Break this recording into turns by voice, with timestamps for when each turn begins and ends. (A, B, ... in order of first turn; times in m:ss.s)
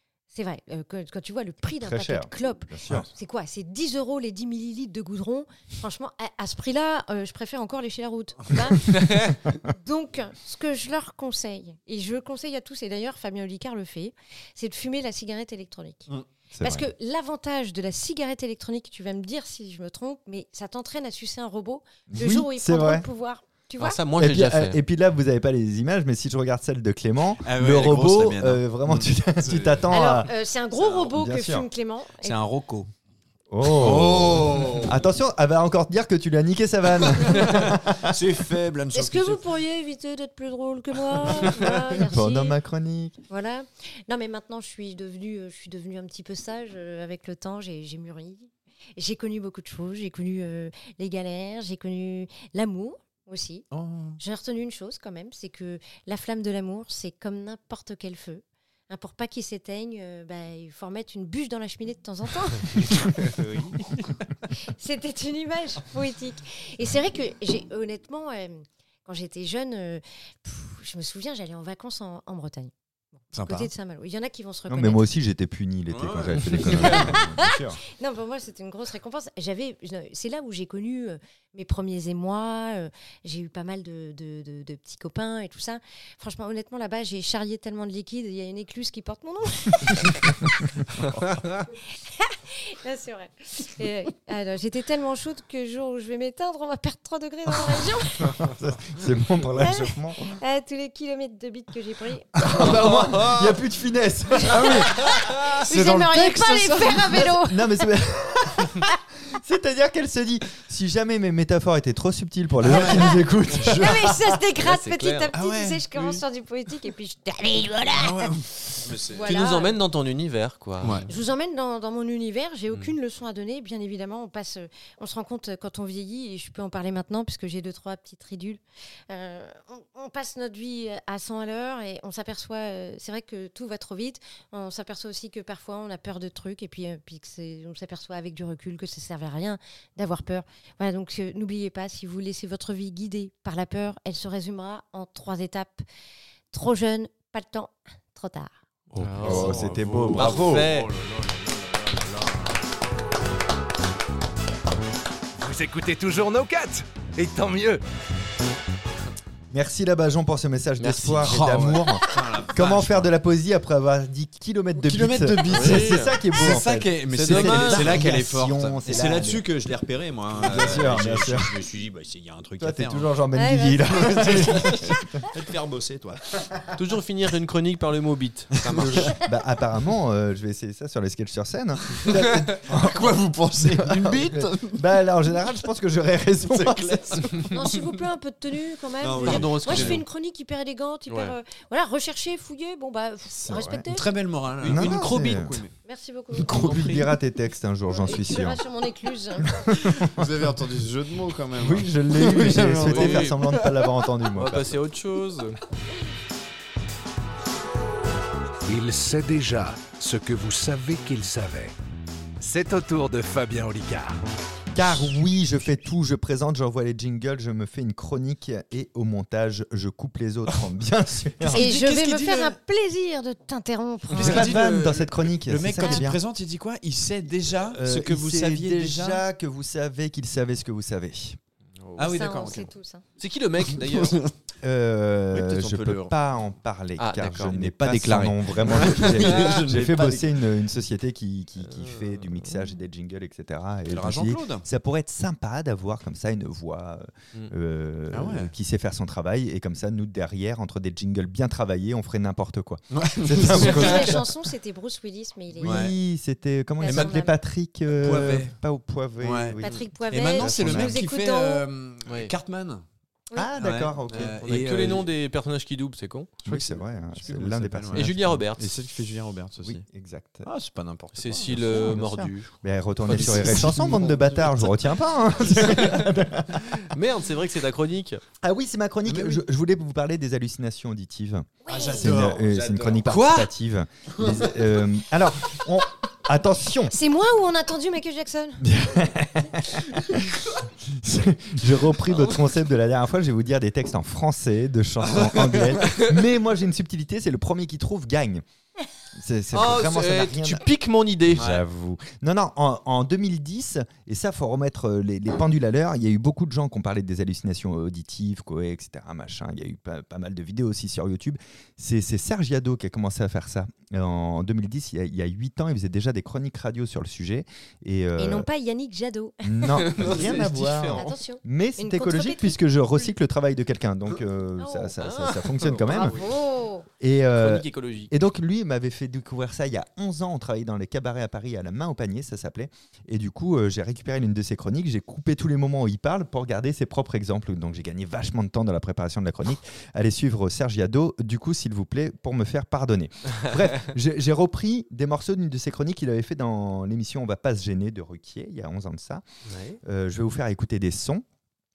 0:00.3-0:16.1 A
0:01.8-0:03.1 B
0:16.5-0:16.8 B
0:16.6-0:24.0 A
0:22.1-0:23.1 B
0:23.8-0:24.8 C
0:24.2-0:30.3 B
0:27.4-0:29.9 D
0:29.9-0:32.4 A
0:31.0-0:31.7 B
0:32.2-0:32.9 D
0:33.5-0:38.2 B
0:33.6-0:35.0 D
0:37.1-0:39.4 D
0:38.9-0:42.6 A
0:41.8-0:43.2 B
0:43.3-0:53.7 A
0:53.7-0:54.2 D
0:54.2-1:03.4 A
1:03.3-1:04.1 D
1:04.6-1:15.1 A
1:13.3-1:13.7 D
1:14.7-1:17.8 B
1:15.9-1:17.1 D
1:16.8-1:30.7 A
1:31.9-1:38.4 A
1:38.2-1:40.4 B
1:39.6-1:42.3 A
1:42.4-1:45.1 B
1:44.5-1:47.2 D
1:44.6-1:47.8 A
1:46.7-1:54.4 B
1:52.6-1:54.0 D
1:52.7-1:59.8 A
1:54.6-1:55.3 C
1:55.3-1:56.2 D
1:57.9-1:59.3 D
1:59.2-2:01.1 C
2:00.8-2:01.1 D
2:01.1-2:25.8 A
2:26.5-2:28.5 A
2:29.0-2:30.9 C
2:29.0-2:32.6 D
2:29.0-2:30.7 B
2:35.4-2:37.8 E
2:39.5-2:49.5 B
2:40.8-2:41.8 C
2:41.2-2:43.1 D
2:44.8-2:53.1 D
2:45.4-2:46.2 C
2:47.1-2:48.1 C
2:50.3-2:51.5 B
2:52.6-2:55.1 B
2:53.4-2:54.3 A
2:53.9-2:56.6 D
2:56.8-2:59.2 C
2:58.8-3:07.5 B
3:02.0-3:04.8 D
3:06.5-3:07.4 D
3:07.5-3:14.1 A
3:09.0-3:10.0 D
3:09.2-3:10.0 C
3:11.1-3:11.3 C
3:13.5-3:15.7 D
3:13.5-3:13.8 B
3:14.6-3:15.6 C
3:14.6-3:15.6 B
3:15.8-3:16.8 A
3:16.4-3:18.6 B
3:16.5-3:17.0 D
3:16.5-3:17.0 C
3:17.9-3:19.7 A
3:19.5-3:20.5 B
3:19.9-3:23.9 D
3:21.5-3:24.8 B
3:22.8-3:23.4 C
3:24.3-3:25.6 C
3:28.6-3:31.7 E
3:32.4-3:34.2 E
3:34.7-3:41.7 B
3:41.4-3:42.6 D
3:41.5-3:44.6 A
3:44.1-3:49.2 D
3:44.1-3:46.2 B
3:45.8-3:46.1 A
3:47.7-3:51.4 B
3:51.8-3:52.2 C
3:52.0-3:52.7 D
3:52.0-3:53.0 A
3:53.2-3:54.3 C
3:53.8-3:54.3 D
3:54.6-4:14.3 B
3:55.3-3:56.1 D
3:57.0-3:57.6 C
3:57.5-4:00.4 D
3:58.8-3:59.6 C
4:01.7-4:02.4 C
4:03.9-4:04.6 D
4:08.1-4:08.5 D
4:12.9-4:14.2 D
4:13.5-4:15.8 A
4:15.6-4:21.0 B
4:15.6-4:16.0 D
4:16.8-4:17.4 A
4:16.9-4:17.1 D
4:17.9-4:18.6 D
4:19.2-4:19.6 D
4:19.6-4:21.6 A
4:20.1-4:22.8 D
4:22.1-4:22.3 C
4:23.4-4:24.4 B
4:23.6-4:25.1 D
4:24.1-4:26.4 C
4:26.4-4:28.4 B
4:26.5-4:29.8 D
4:27.9-4:28.7 C
4:29.6-4:30.5 B
4:30.4-4:32.1 D
4:31.2-4:32.5 C
4:31.7-4:36.9 B
4:33.1-4:35.0 D
4:33.2-4:33.7 C
4:35.8-4:36.1 C
4:36.8-4:38.2 C
4:38.4-4:47.0 B
4:39.1-4:39.4 D
4:41.6-4:42.2 A
4:41.7-4:43.5 D
4:44.2-4:44.5 D
4:46.9-4:48.7 A
4:48.6-4:58.4 B
4:55.1-4:56.1 D
4:59.1-5:00.6 B
4:59.5-5:01.5 C
5:01.3-5:18.5 B
5:01.4-5:01.6 D
5:18.2-5:19.7 A
5:19.4-5:26.2 B
5:19.7-5:21.1 C
5:20.9-5:22.6 A
5:24.6-5:25.0 A
5:25.0-5:26.2 C
5:25.9-5:26.9 A
5:27.0-5:49.2 B
5:27.4-5:28.1 C
5:49.5-5:49.8 C
5:49.8-5:51.2 B